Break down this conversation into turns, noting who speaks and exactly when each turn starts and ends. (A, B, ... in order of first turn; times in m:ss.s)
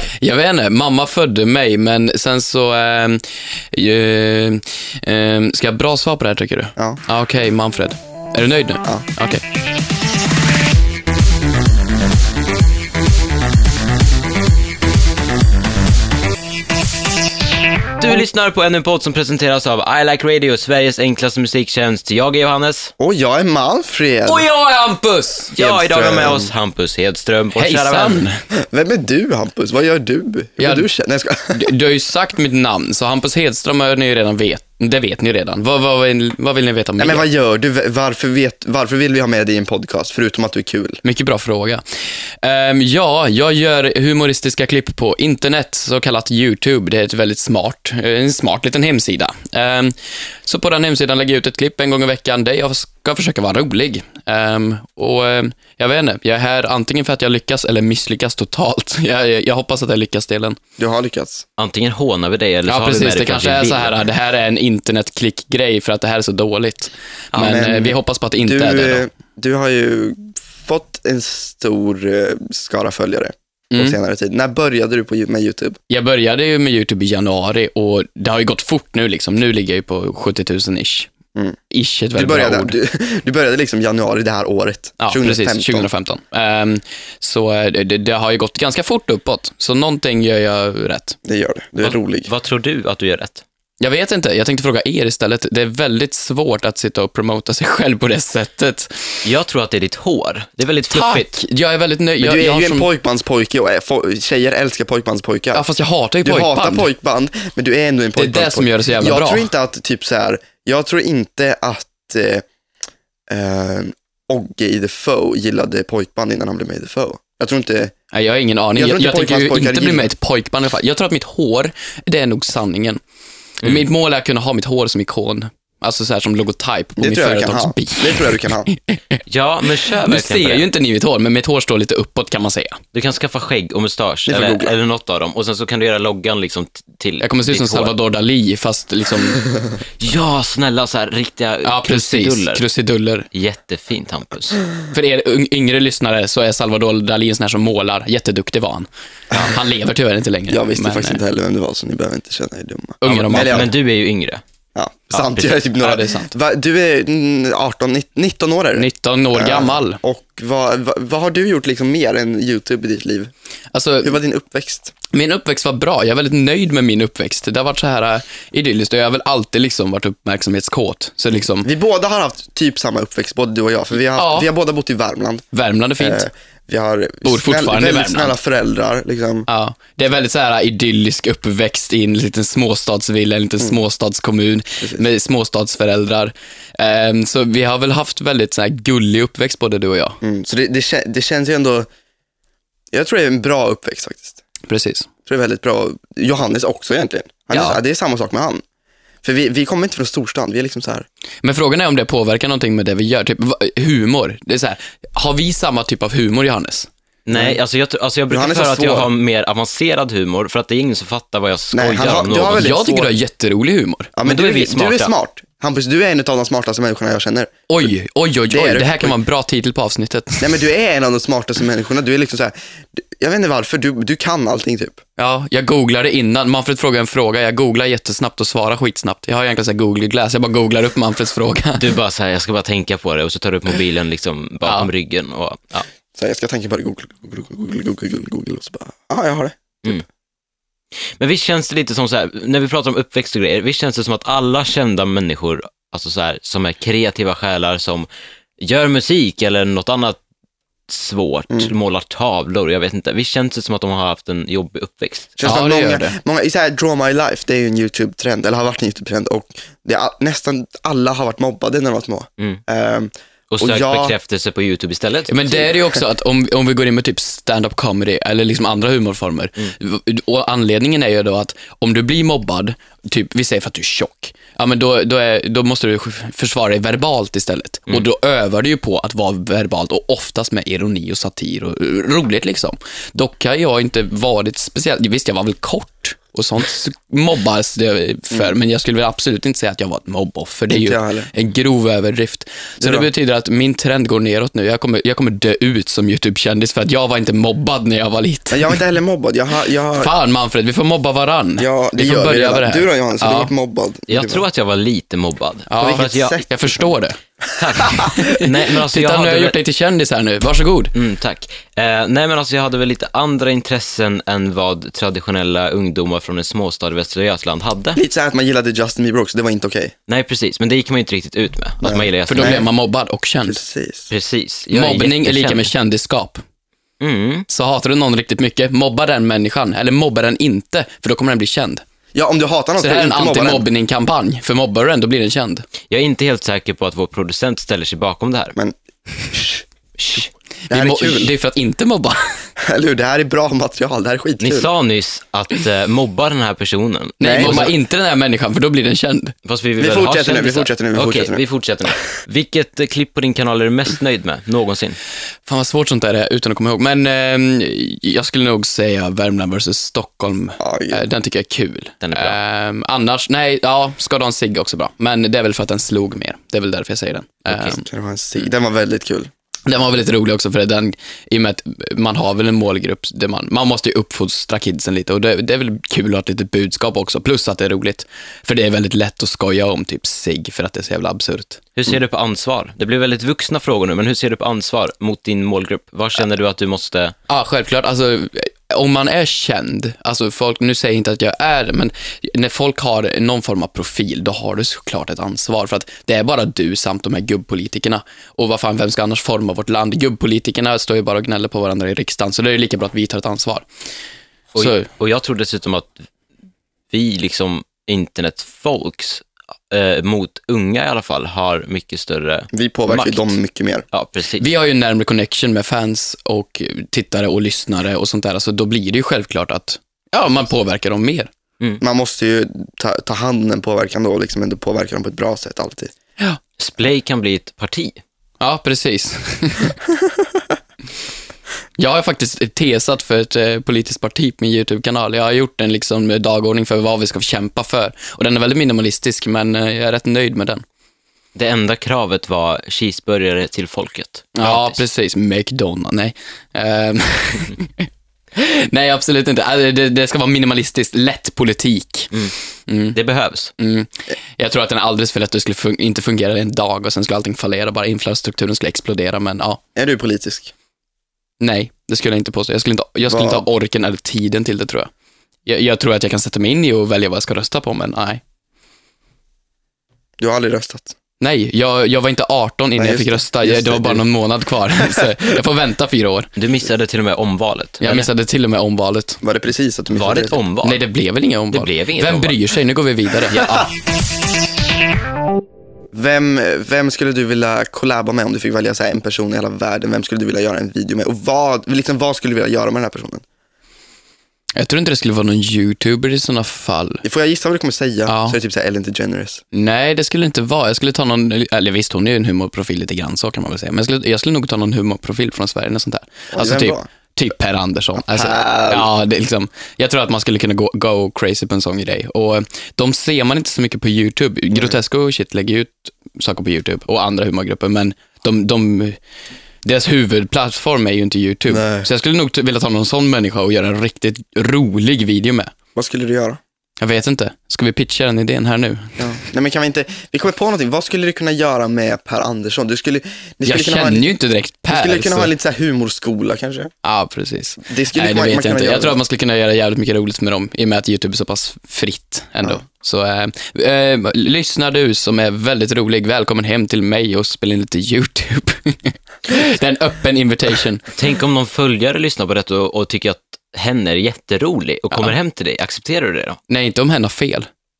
0:00.2-0:09.4 A
0:06.8-0:07.0 B
0:18.0-0:22.9 C
0:23.0-0:24.4 B
0:24.2-0:25.5 A
0:25.5-0:28.2 C
0:25.6-0:26.5 B
0:27.5-0:28.4 A
0:28.6-0:31.6 B
0:30.6-0:30.9 A
0:31.5-0:37.2 A
0:37.0-0:41.0 B
0:41.0-0:41.8 A
0:42.4-1:00.6 A
1:00.8-1:01.4 B
1:01.6-1:04.0 C
1:02.7-1:09.0 A
1:07.3-1:15.8 B
1:13.7-1:14.0 A
1:15.9-1:21.1 A
1:21.7-1:22.7 A
1:22.1-1:25.9 B
1:25.0-1:31.2 A
1:31.2-1:32.3 B
1:31.8-1:33.4 C
1:33.8-1:39.1 A
1:39.2-1:41.4 C
1:40.9-1:42.9 A
1:42.2-1:45.6 B
1:45.5-1:46.9 A
1:46.2-1:52.4 B
1:48.2-1:49.5 A
1:53.3-1:57.9 B
1:58.1-2:03.0 A
1:58.8-2:00.1 B
2:03.6-2:09.2 A
2:07.0-2:08.7 B
2:09.3-2:10.7 C
2:09.9-2:12.8 A
2:12.9-2:17.9 C
2:14.3-2:14.7 B
2:17.2-2:19.4 A
2:20.0-2:22.6 C
2:21.6-2:23.3 A
2:23.3-2:24.6 C
2:24.9-2:31.2 A
2:30.5-2:33.7 B
2:33.0-2:33.7 A
2:33.0-2:34.4 C
2:34.7-2:43.3 B
2:35.1-2:35.6 C
2:35.8-2:36.3 A
2:38.7-2:40.0 A
2:43.7-2:44.2 A
2:44.0-2:44.9 B
2:45.1-2:51.7 A
2:51.6-2:55.4 B
2:54.2-2:54.5 A
2:55.5-2:56.3 A
2:56.0-2:59.5 B
2:57.2-2:58.3 A
2:59.5-3:10.2 A
3:10.2-3:11.9 B
3:12.9-3:14.4 B
3:14.7-3:15.1 A
3:15.2-3:18.6 B
3:17.5-3:17.8 A
3:19.2-3:21.0 B
3:21.4-3:26.9 A
3:27.2-3:32.7 C
3:27.3-3:27.6 B
3:28.3-3:29.1 B
3:31.7-3:33.1 B
3:32.6-3:34.1 A
3:34.1-3:37.9 B
3:34.2-3:35.1 C
3:37.7-3:40.6 A
3:38.5-3:39.1 B
3:40.4-3:45.0 B
3:45.2-3:51.9 A
3:51.8-3:55.8 C
3:54.6-3:54.9 A
3:56.1-3:59.6 B
4:01.0-4:10.2 C
4:10.9-4:15.3 C
4:15.4-4:24.1 B
4:15.4-4:16.1 A
4:23.5-4:25.3 C
4:25.3-4:58.8 A
4:50.7-4:51.3 B
4:52.8-4:53.1 B
4:58.5-5:00.1 B
5:00.0-5:03.5 A
5:01.6-5:04.4 B
5:04.1-5:06.4 C
5:05.7-5:07.2 A
5:05.8-5:06.8 B
5:07.6-5:09.6 C
5:07.8-5:08.1 B
5:08.0-5:10.9 A
5:10.9-5:18.0 C
5:17.9-5:19.9 B
5:20.1-5:22.6 C
5:21.8-5:22.7 B
5:22.3-5:23.6 A
5:23.4-5:24.1 B
5:24.1-5:25.7 C
5:24.7-5:26.4 A
5:27.0-5:27.4 C
5:27.5-5:31.8 A
5:32.1-5:33.6 B
5:32.8-5:35.7 A
5:35.9-5:38.6 C
5:39.3-5:39.6 B
5:40.0-5:40.2 C
5:40.7-5:42.4 A
5:40.7-5:41.3 B
5:42.6-5:44.7 B
5:44.4-5:47.7 C
5:47.2-5:49.3 A
5:47.2-5:47.7 B
5:49.4-5:55.0 C
5:49.8-5:51.4 B
5:55.4-6:07.8 A
6:00.6-6:01.0 B
6:02.0-6:02.4 C
6:07.5-6:09.3 B
6:09.6-6:21.6 A
6:21.8-6:27.2 C
6:27.3-6:43.6 A
6:44.5-6:46.0 C
6:44.6-6:44.9 A
6:46.9-6:53.3 C
6:52.5-6:53.8 B
6:53.9-6:54.5 C
6:54.4-7:01.3 A
7:01.8-7:05.9 B
7:06.6-7:08.0 C
7:08.4-7:09.7 A
7:11.8-7:20.6 A
7:21.3-7:24.8 C
7:24.4-7:32.1 A
7:32.7-7:33.0 A
7:32.9-7:33.5 C
7:33.6-7:39.6 A
7:39.8-7:40.5 B
7:41.4-7:44.9 A
7:43.1-7:43.4 B
7:45.4-7:48.2 A
7:50.2-7:50.9 B
7:51.2-7:56.3 A
7:52.8-7:54.0 B
7:54.8-7:55.1 B
7:56.4-7:58.1 C
7:57.8-7:59.2 A
7:59.2-8:00.4 B
7:59.9-8:00.8 C
8:00.6-8:03.7 A
8:01.5-8:02.4 C
8:05.9-8:13.2 B
8:14.6-8:17.0 A
8:17.0-8:19.4 B
8:18.1-8:18.4 A
8:19.5-8:39.0 A
8:26.3-8:26.9 B
8:28.0-8:28.9 B
8:39.6-8:45.5 A
8:41.5-8:41.9 B
8:45.7-8:46.4 B
8:46.8-8:49.0 A
8:49.0-8:54.1 B
8:53.4-8:55.3 A
8:54.7-8:56.7 B
8:56.8-9:10.8 A
8:57.6-8:59.0 B
9:10.9-9:16.4 C
9:16.5-9:17.5 A